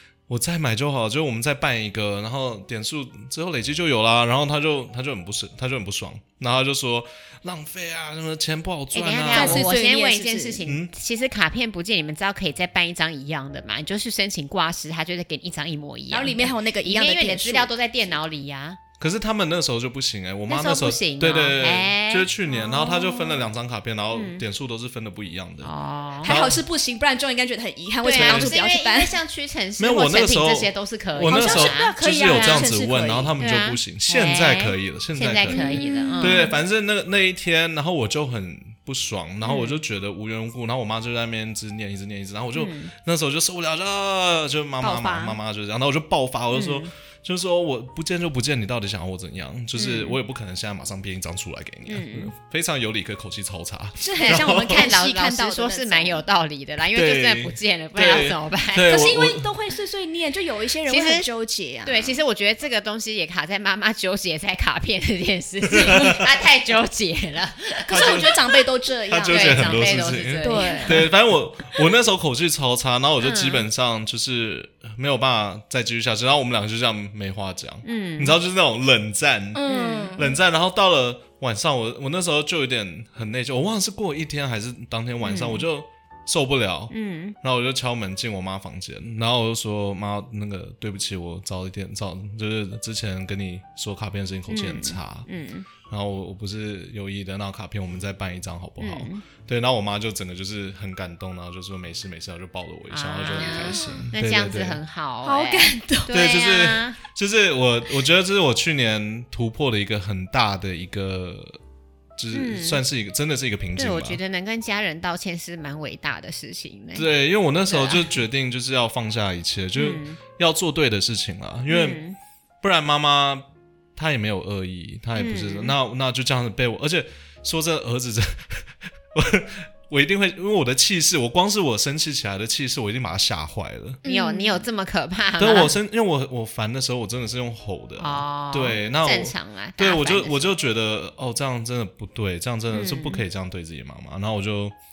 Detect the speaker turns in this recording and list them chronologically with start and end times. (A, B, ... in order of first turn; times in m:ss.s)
0:00.3-0:09.7 A
0:08.9-0:18.8 B
0:09.3-0:10.6 C
0:10.6-0:10.9 A
0:16.1-0:17.7 C
0:19.0-0:25.7 A
0:20.5-0:22.3 B
0:22.5-0:23.4 C
0:24.1-0:24.4 B
0:25.6-0:26.4 B
0:26.2-0:26.6 A
0:26.2-0:29.1 C
0:28.0-0:32.7 B
0:28.1-0:28.6 A
0:29.8-0:54.9 A
0:31.2-0:33.3 C
0:33.4-0:36.5 B
0:35.5-0:36.6 C
0:39.4-0:39.8 B
0:42.5-0:42.9 B
0:44.8-0:45.4 C
0:46.5-0:46.9 B
0:49.7-0:50.2 B
0:51.9-0:52.3 B
0:54.0-0:56.2 C
0:54.2-0:58.9 B
0:56.9-0:59.5 A
0:58.8-1:02.2 C
1:00.9-1:01.3 B
1:01.8-1:08.3 B
1:05.7-1:06.2 A
1:07.9-1:09.8 C
1:07.9-1:08.4 A
1:09.1-1:35.3 A
1:09.3-1:11.1 B
1:10.4-1:11.1 C
1:13.2-1:13.6 B
1:17.8-1:18.4 B
1:19.5-1:20.4 C
1:19.6-1:20.2 B
1:25.2-1:25.6 B
1:26.9-1:27.4 B
1:34.5-1:35.7 B
1:35.8-1:44.8 A
1:38.8-1:39.2 B
1:42.9-1:47.0 B
1:43.4-1:44.0 C
1:45.2-1:46.1 C
1:46.1-1:51.6 A
1:52.2-1:54.2 A
1:52.3-1:52.8 B
1:53.8-1:57.1 B
1:56.9-2:02.0 A
1:57.6-1:58.1 B
1:59.8-2:00.2 B
2:01.7-2:02.2 B
2:02.6-2:14.0 A
2:05.1-2:05.7 B
2:14.0-2:14.6 C
2:14.0-2:15.7 B
2:15.4-2:24.7 A
2:18.0-2:20.4 B
2:22.7-2:23.2 B